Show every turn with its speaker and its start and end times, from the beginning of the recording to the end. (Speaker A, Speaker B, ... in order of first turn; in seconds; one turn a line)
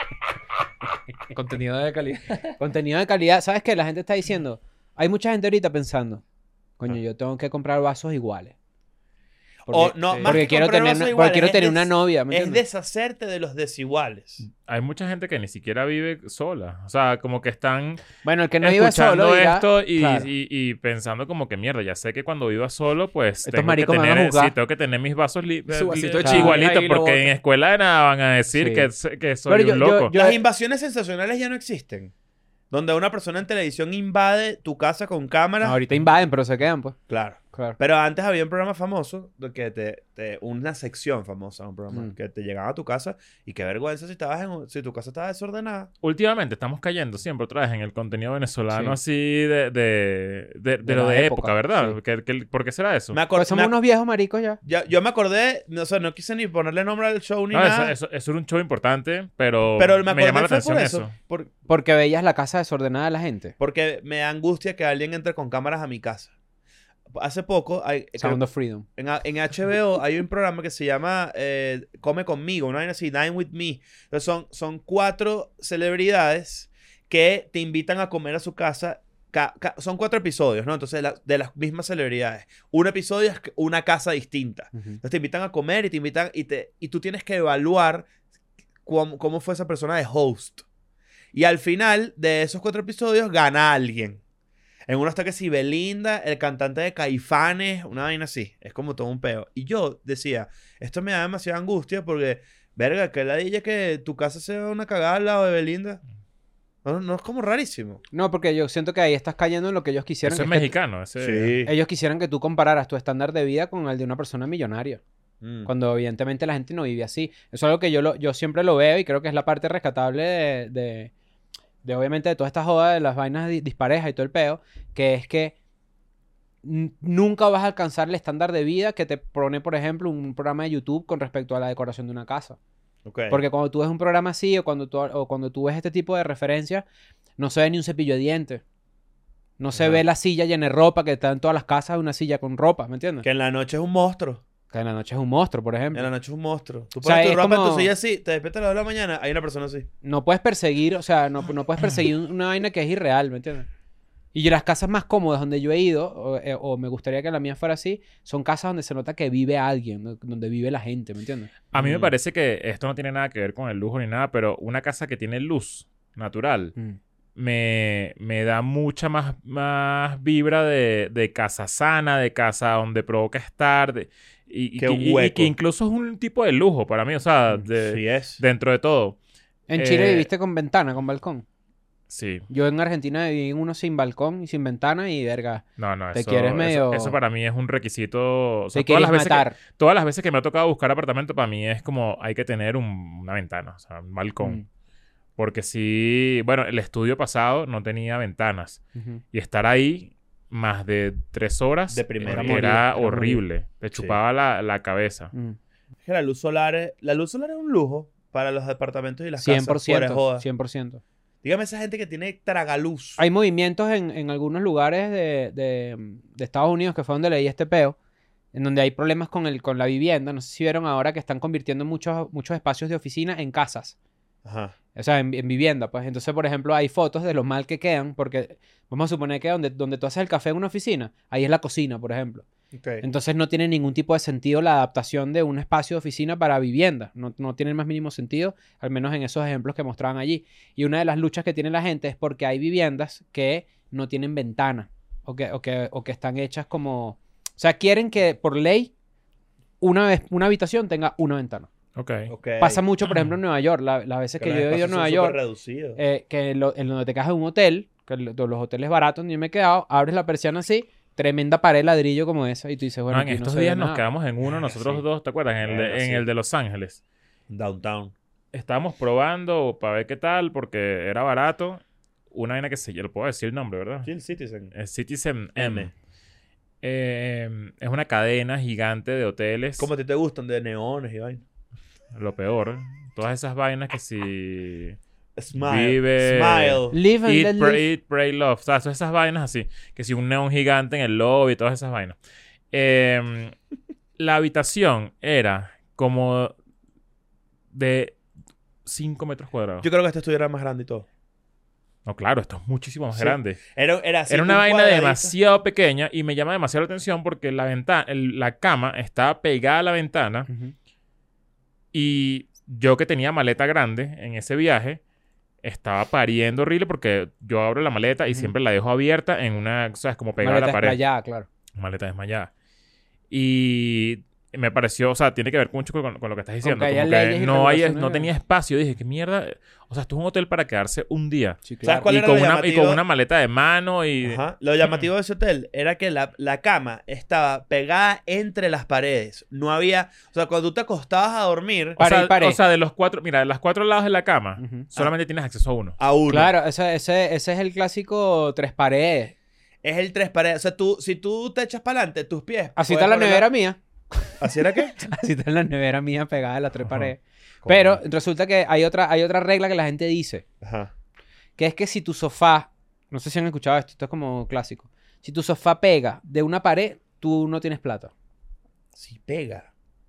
Speaker A: 1.3-2.5
Speaker B: 2.6-6.2
Speaker B: 6.8-8.5
Speaker C: 9.7-14.4
Speaker B: 9.7-12.6
Speaker A: 10.1-10.4
Speaker D: 14.4-30.1
Speaker B: 18.2-20.3
Speaker B: 23.4-24.5
Speaker A: 25.7-27.3
Speaker B: 26.2-26.6
Speaker B: 28.5-28.9
Speaker B: 29.4-30.4
Speaker C: 30.1-32.1
Speaker C: 32.7-35.8
Speaker B: 35.6-37.0
Speaker C: 37.1-45.9
Speaker B: 37.5-37.8
Speaker D: 46.0-53.2
Speaker B: 48.7-49.0
Speaker B: 50.8-52.0
Speaker C: 53.1-53.8
Speaker B: 53.3-54.6
Speaker C: 54.6-58.0
Speaker D: 57.5-61.1
Speaker C: 59.8-61.5
Speaker B: 61.7-63.5
Speaker C: 63.6-66.3
Speaker C: 67.1-68.4
Speaker B: 68.2-68.9
Speaker C: 69.0-88.1
Speaker B: 84.7-85.0
Speaker C: 88.9-90.6
Speaker C: 91.3-94.2
Speaker C: 94.9-106.0
Speaker C: 106.8-108.0
Speaker B: 108.1-110.7
Speaker D: 110.2-111.5
Speaker C: 111.2-111.7
Speaker B: 111.6-115.0
Speaker C: 115.4-115.7
Speaker B: 115.7-121.1
Speaker B: 121.8-125.5
Speaker B: 126.6-132.6
Speaker C: 133.1-133.4
Speaker B: 133.3-136.8
Speaker B: 137.4-138.6
Speaker B: 139.6-143.3
Speaker C: 139.7-140.0
Speaker C: 143.2-144.4
Speaker B: 144.7-146.1
Speaker C: 145.9-149.9
Speaker B: 147.0-147.9
Speaker B: 150.0-153.7
Speaker B: 154.3-161.5
Speaker D: 161.7-166.7
Speaker C: 161.8-162.1
Speaker D: 167.4-179.2
Speaker C: 174.8-175.5
Speaker C: 177.8-178.4
Speaker B: 179.7-181.4
Speaker D: 179.7-180.3
Speaker D: 182.1-182.4
Speaker B: 182.5-187.2
Speaker D: 185.8-194.6
Speaker B: 188.7-189.6
Speaker D: 195.4-198.8
Speaker B: 198.9-199.2
Speaker D: 199.3-205.3
Speaker C: 201.9-202.8
Speaker B: 202.2-203.4
Speaker C: 206.1-210.4
Speaker B: 209.4-211.0
Speaker C: 211.4-213.2
Speaker B: 213.2-217.9
Speaker B: 218.5-223.9
Speaker C: 224.4-224.7
Speaker B: 224.9-232.4
Speaker C: 232.7-233.1
Speaker B: 233.0-248.9
Speaker B: 249.8-251.7
Speaker D: 251.9-252.3
Speaker C: 252.3-252.8
Speaker B: 252.6-255.4
Speaker D: 253.1-253.3
Speaker C: 254.4-256.0
Speaker B: 255.9-264.0
Speaker D: 263.1-267.0
Speaker C: 264.4-265.1
Speaker C: 265.6-266.2
Speaker C: 267.5-268.1
Speaker D: 268.5-274.1
Speaker C: 274.1-274.7
Speaker D: 274.7-275.9
Speaker C: 275.6-275.9
Speaker D: 276.8-279.9
Speaker C: 279.8-281.4
Speaker D: 282.1-285.0
Speaker C: 285.4-287.0
Speaker D: 285.6-292.2
Speaker B: 286.9-287.9
Speaker D: 292.7-293.6
Speaker D: 294.2-296.5
Speaker D: 297.7-298.2
Speaker D: 298.9-299.9
Speaker C: 299.8-301.1
Speaker D: 302.1-303.6
Speaker C: 303.1-305.3
Speaker D: 304.3-310.5
Speaker B: 310.5-310.7
Speaker D: 311.9-315.0
Speaker D: 315.6-321.0
Speaker B: 320.4-321.5
Speaker D: 321.8-322.5
Speaker D: 323.3-335.1
Speaker B: 326.6-328.3
Speaker B: 331.7-332.1
Speaker C: 331.8-333.0
Speaker C: 334.2-342.0
Speaker D: 342.0-346.0
Speaker B: 342.0-342.6
Speaker B: 344.6-344.9
Speaker C: 346.0-346.5
Speaker B: 346.3-349.3
Speaker C: 349.8-353.5
Speaker B: 352.8-354.4
Speaker C: 354.4-355.0
Speaker B: 354.9-360.4
Speaker C: 357.6-358.0
Speaker C: 360.6-360.9
Speaker B: 361.6-368.1
Speaker C: 368.9-369.7